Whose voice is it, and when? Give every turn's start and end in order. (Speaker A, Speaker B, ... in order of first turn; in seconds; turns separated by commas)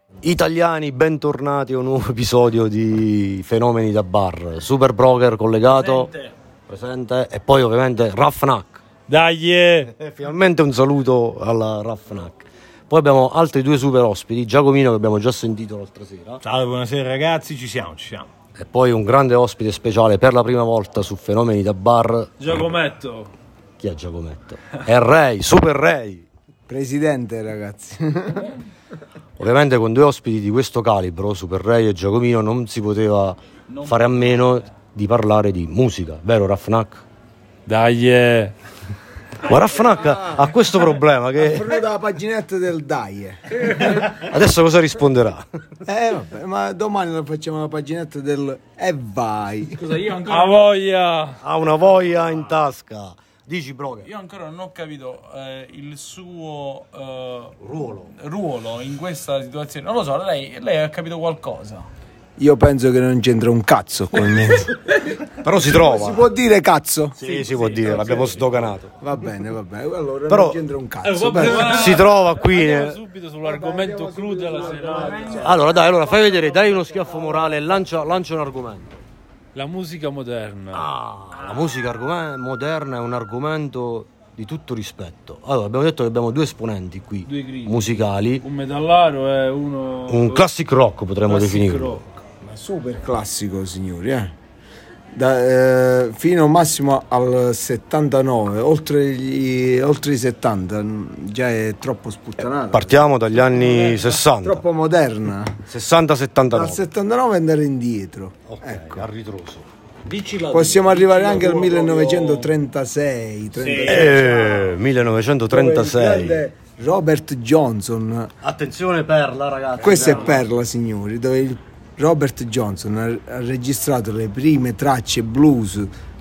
Speaker A: 0.2-6.1, Speaker B: 5.6-6.3, Speaker A: 6.7-8.8, Speaker C: 9.1-9.9, Speaker A: 9.9-16.4, Speaker D: 16.4-18.3, Speaker A: 18.6-22.3, Speaker C: 22.4-23.3, Speaker A: 23.8-26.3, Speaker E: 26.7-28.5, Speaker A: 29.4-37.0, Speaker B: 33.7-34.7, Speaker C: 37.7-38.5, Speaker A: 39.5-41.8, Speaker B: 39.5-40.0, Speaker E: 40.0-40.5, Speaker E: 41.4-44.1, Speaker B: 43.6-44.0, Speaker A: 44.2-45.5, Speaker E: 45.8-49.8, Speaker B: 49.7-50.7, Speaker C: 50.3-51.4, Speaker A: 51.4-54.1, Speaker B: 52.0-52.5, Speaker B: 54.0-61.9, Speaker A: 57.6-58.1, Speaker E: 62.4-64.7, Speaker A: 65.4-66.3, Speaker E: 65.6-67.2, Speaker B: 67.2-68.4, Speaker A: 67.2-68.9, Speaker C: 67.9-68.2, Speaker E: 68.9-71.8, Speaker A: 70.3-70.6, Speaker C: 71.0-75.5, Speaker A: 71.6-73.0, Speaker E: 73.4-77.9, Speaker B: 74.5-75.8, Speaker A: 75.5-79.0, Speaker C: 79.5-80.9, Speaker A: 80.7-88.4, Speaker B: 81.3-82.0, Speaker C: 87.2-90.5, Speaker A: 90.1-92.0, Speaker C: 91.2-92.0, Speaker E: 92.4-94.3, Speaker E: 95.1-103.1, Speaker A: 102.4-104.6, Speaker B: 103.5-104.1, Speaker E: 104.3-105.6, Speaker A: 105.7-106.8, Speaker E: 106.5-109.1, Speaker A: 108.5-109.7, Speaker B: 110.0-112.5, Speaker E: 110.5-114.8, Speaker D: 113.5-114.0, Speaker A: 113.8-116.5, Speaker E: 115.5-118.3, Speaker A: 118.4-120.4, Speaker E: 119.8-125.9, Speaker B: 119.9-120.4